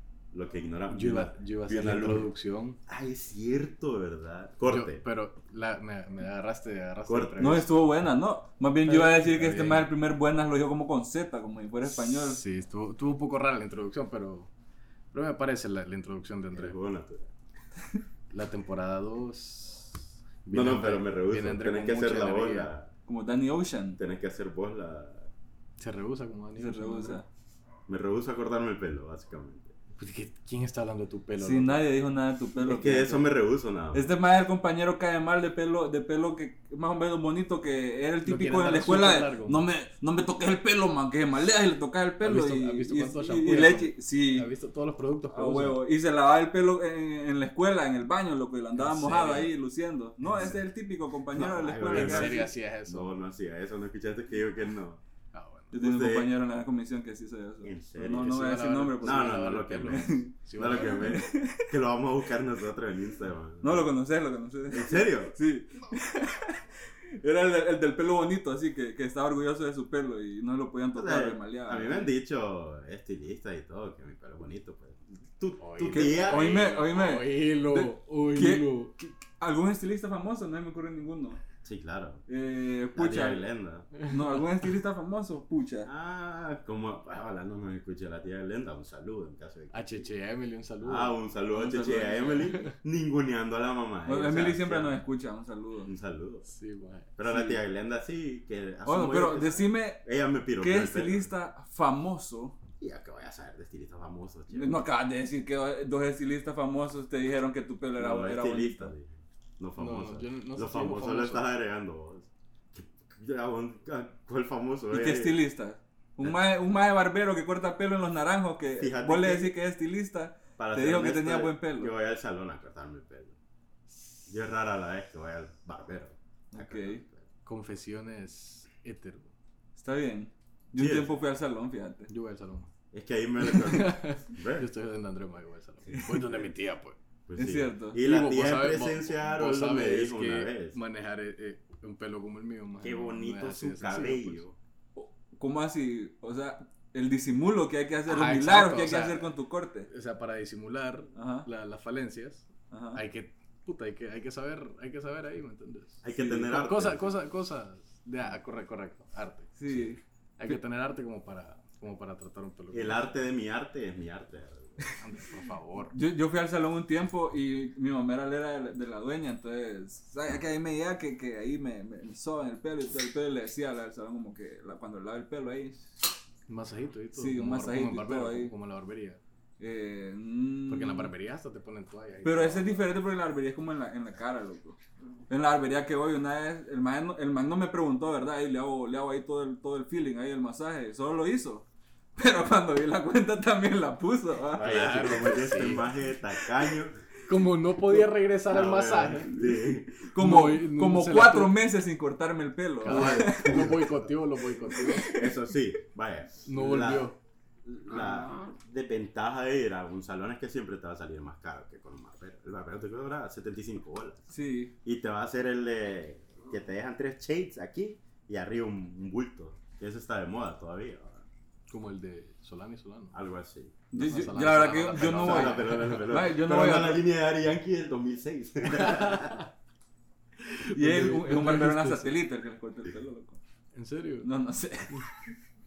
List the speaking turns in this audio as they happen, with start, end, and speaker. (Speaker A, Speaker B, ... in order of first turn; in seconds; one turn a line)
Speaker A: 0.3-2.3
Speaker B: 0.9-2.8
Speaker A: 2.9-5.0
Speaker B: 4.6-7.7
Speaker A: 7.1-7.7
Speaker C: 7.4-12.4
Speaker B: 8.8-9.9
Speaker B: 11.9-14.5
Speaker B: 15.1-16.8
Speaker A: 16.5-17.3
Speaker B: 18.3-22.7
Speaker A: 20.5-22.9
Speaker C: 23.1-24.0
Speaker A: 24.0-25.3
Speaker B: 25.8-27.2
Speaker C: 26.6-27.3
Speaker A: 27.9-29.7
Speaker B: 30.0-31.9
Speaker C: 31.4-33.3
Speaker A: 32.6-34.1
Speaker C: 33.9-44.5
Speaker B: 38.2-39.6
Speaker B: 42.2-45.8
Speaker C: 45.3-52.5
Speaker B: 48.8-49.5
Speaker B: 50.2-50.6
Speaker A: 51.3-55.0
Speaker B: 51.4-53.1
Speaker B: 55.3-55.8
Speaker C: 55.7-61.7
Speaker A: 55.7-56.3
Speaker A: 57.6-63.9
Speaker B: 58.1-61.1
Speaker C: 63.6-66.6
Speaker A: 64.7-65.3
Speaker C: 67.2-72.1
Speaker A: 70.9-76.8
Speaker B: 75.6-78.9
Speaker C: 75.8-81.4
Speaker A: 81.6-82.2
Speaker C: 82.3-83.5
Speaker A: 83.0-83.9
Speaker B: 84.0-84.4
Speaker C: 84.0-85.9
Speaker A: 85.8-90.0
Speaker B: 89.7-91.2
Speaker A: 90.8-95.0
Speaker C: 91.5-92.6
Speaker C: 94.1-95.9
Speaker A: 95.8-96.5
Speaker B: 96.5-97.1
Speaker A: 97.2-101.3
Speaker C: 97.3-97.6
Speaker C: 98.8-100.0
Speaker C: 100.6-102.6
Speaker A: 102.8-104.8
Speaker C: 104.5-108.9
Speaker A: 108.0-115.4
Speaker B: 109.8-111.5
Speaker C: 114.9-121.9
Speaker A: 118.8-119.6
Speaker A: 120.6-123.3
Speaker A: 124.3-127.2
Speaker C: 126.5-127.0
Speaker B: 127.5-129.3
Speaker C: 129.8-132.1
Speaker A: 130.8-131.2
Speaker B: 132.1-132.7
Speaker A: 132.9-134.7
Speaker B: 133.5-137.0
Speaker C: 135.9-136.3
Speaker A: 137.3-140.8
Speaker C: 137.4-138.0
Speaker B: 138.0-144.4
Speaker A: 142.8-144.6
Speaker C: 145.0-149.9
Speaker B: 148.1-149.3
Speaker B: 149.9-163.2
Speaker C: 151.2-151.5
Speaker C: 152.7-153.0
Speaker A: 156.0-157.1
Speaker C: 159.6-160.6
Speaker A: 162.7-164.8
Speaker B: 165.0-166.0
Speaker C: 165.9-175.9
Speaker B: 176.5-179.2
Speaker C: 177.1-178.5
Speaker C: 179.6-181.1
Speaker B: 180.7-182.9
Speaker C: 182.2-184.8
Speaker C: 185.3-195.2
Speaker A: 194.6-197.0
Speaker B: 194.6-195.9
Speaker B: 197.3-199.3
Speaker A: 198.5-200.1
Speaker C: 200.1-203.8
Speaker B: 200.2-201.6
Speaker B: 202.8-205.1
Speaker A: 202.9-203.9
Speaker C: 204.8-205.4
Speaker A: 205.1-207.1
Speaker B: 206.5-207.2
Speaker A: 207.7-214.3
Speaker C: 214.3-214.7
Speaker A: 214.8-221.3
Speaker B: 221.7-223.2
Speaker A: 223.1-223.8
Speaker C: 223.9-227.1
Speaker B: 223.9-226.1
Speaker A: 224.9-229.4
Speaker B: 228.8-229.4
Speaker B: 230.4-232.1
Speaker C: 230.7-233.4
Speaker B: 233.7-234.3
Speaker C: 234.2-235.3